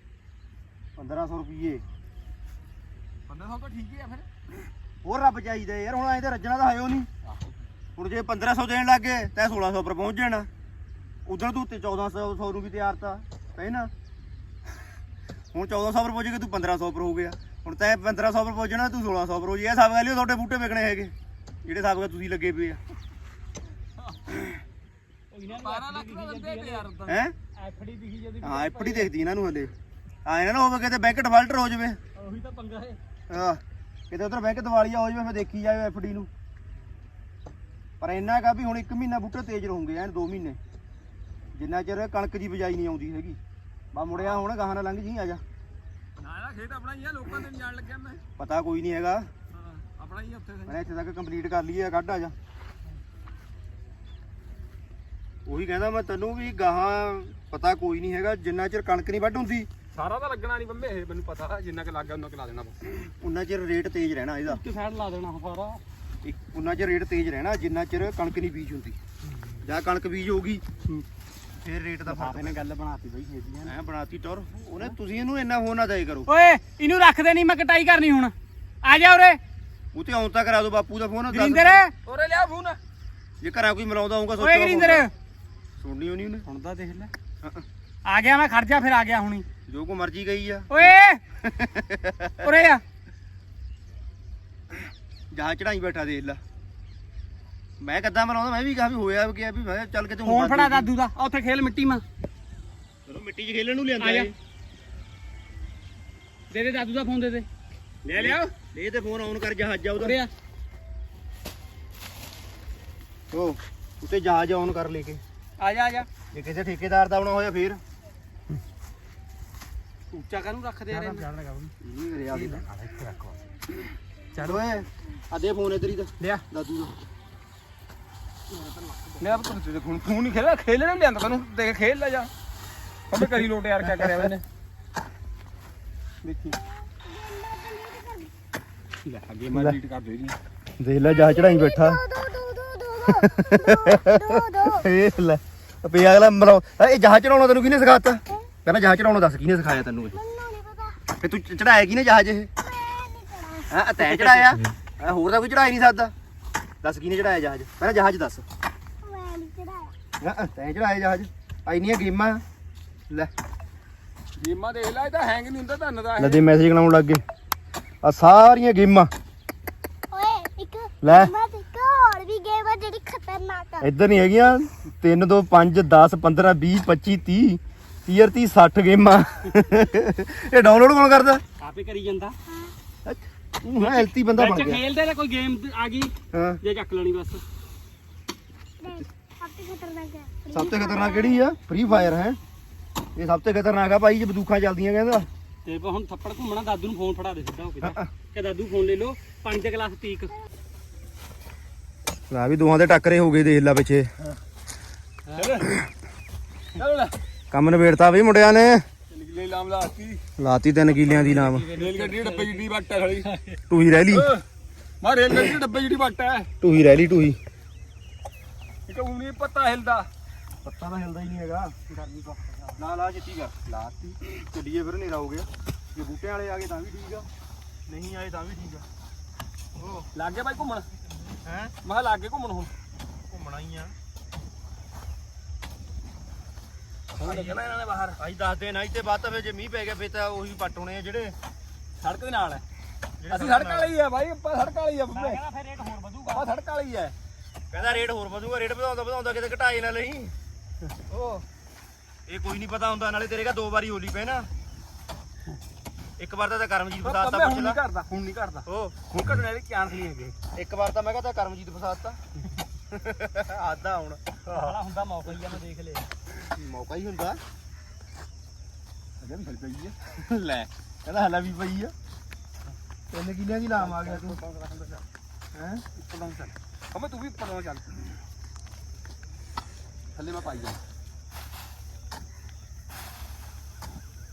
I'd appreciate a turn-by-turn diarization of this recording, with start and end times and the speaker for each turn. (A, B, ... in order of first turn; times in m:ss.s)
0:01.0-0:01.8 A
0:03.3-0:04.3 B
0:05.0-0:07.1 A
0:07.2-0:07.6 B
0:08.0-0:10.5 A
0:11.3-0:13.9 A
0:15.5-0:21.1 A
0:21.6-0:22.8 A
0:25.3-0:26.9 C
0:25.5-0:27.1 B
0:27.1-0:27.3 A
0:27.6-0:29.1 C
0:28.4-0:29.7 A
0:30.2-0:32.0 A
0:32.2-0:33.0 C
0:33.3-0:36.3 A
0:38.0-0:40.6 A
0:41.5-0:43.4 A
0:43.9-0:45.4 A
0:46.2-0:48.2 B
0:48.4-0:49.3 A
0:49.5-0:50.8 B
0:50.7-0:52.4 A
0:55.5-0:59.7 A
0:59.9-1:03.1 B
1:03.2-1:04.6 A
1:04.5-1:05.8 C
1:06.2-1:09.0 A
1:09.3-1:09.6 C
1:09.6-1:10.6 A
1:11.6-1:12.6 A
1:12.1-1:13.7 C
1:13.6-1:16.3 A
1:16.3-1:19.4 C
1:19.9-1:21.8 A
1:21.3-1:21.9 C
1:22.1-1:22.8 B
1:23.4-1:25.1 A
1:24.4-1:25.1 C
1:25.8-1:26.4 A
1:26.5-1:27.1 C
1:28.1-1:29.5 C
1:29.7-1:32.5 A
1:30.7-1:31.2 C
1:32.4-1:32.8 C
1:35.3-1:36.4 A
1:37.8-1:40.9 A
1:40.2-1:42.0 C
1:43.1-1:44.4 A
1:44.0-1:44.3 C
1:46.5-1:47.5 C
1:48.1-1:48.5 C
1:48.2-1:50.2 A
1:50.0-1:50.3 C
1:53.3-1:55.2 A
1:55.6-1:56.1 C
1:56.3-1:57.8 A
2:00.1-2:01.7 C
2:00.9-2:01.2 B
2:01.8-2:02.6 A
2:02.3-2:03.4 C
2:04.4-2:04.6 C
2:04.4-2:07.0 A
2:08.5-2:09.5 C
2:09.2-2:12.3 B
2:13.1-2:14.4 B
2:13.8-2:14.3 A
2:16.2-2:16.6 B
2:16.5-2:18.3 D
2:19.0-2:20.4 B
2:19.5-2:19.8 A
2:20.8-2:22.0 A
2:21.1-2:24.9 D
2:23.1-2:30.2 A
2:30.1-2:31.0 D
2:31.1-2:32.5 A
2:32.6-2:33.8 D
2:33.7-2:36.1 A
2:36.8-2:38.5 A
2:39.0-2:39.9 D
2:40.2-2:42.4 A
2:44.4-2:46.4 B
2:46.2-2:47.2 A
2:48.0-2:49.1 A
2:50.1-2:53.9 D
2:51.0-2:51.3 A
2:53.8-3:01.4 A
3:01.6-3:02.4 C
3:02.5-3:02.7 D
3:03.0-3:04.8 A
3:03.8-3:07.4 C
3:06.3-3:06.6 A
3:08.8-3:11.5 D
3:10.5-3:12.4 A
3:13.2-3:15.3 A
3:15.6-3:20.3 C
3:17.8-3:18.1 A
3:22.3-3:24.1 A
3:25.3-3:25.6 C
3:25.4-3:25.8 B
3:26.8-3:27.1 B
3:27.5-3:28.8 A
3:29.1-3:30.2 B
3:30.4-3:31.7 A
3:31.1-3:32.6 C
3:31.7-3:33.4 B
3:33.7-3:34.3 A
3:34.1-3:34.4 B
3:35.0-3:36.5 B
3:36.6-3:37.4 A
3:38.9-3:40.1 B
3:40.6-3:41.8 A
3:41.9-3:42.8 C
3:42.8-3:47.3 A
3:47.9-3:48.8 A
3:49.8-3:50.1 A
3:50.1-3:50.9 B
3:51.4-3:51.7 A
3:51.8-3:52.7 B
3:53.3-3:53.9 A
3:57.2-3:58.2 B
3:57.2-3:57.6 C
3:58.2-4:01.4 A
4:02.0-4:02.6 B
4:03.2-4:03.9 A
4:03.3-4:05.4 B
4:05.1-4:06.5 C
4:06.3-4:07.2 B
4:07.7-4:10.3 A
4:11.1-4:11.4 A
4:12.3-4:14.5 A
4:16.2-4:17.8 A
4:17.0-4:18.7 B
4:18.7-4:19.0 A
4:19.2-4:20.3 C
4:19.3-4:20.3 B
4:20.5-4:22.2 A
4:22.9-4:24.2 A
4:24.5-4:26.1 C
4:24.5-4:24.7 B
4:26.5-4:27.4 A
4:29.2-4:30.0 B
4:30.2-4:31.9 A
4:33.1-4:34.4 A
4:33.9-4:35.0 B
4:35.5-4:35.8 A
4:36.0-4:38.2 B
4:40.2-4:40.8 B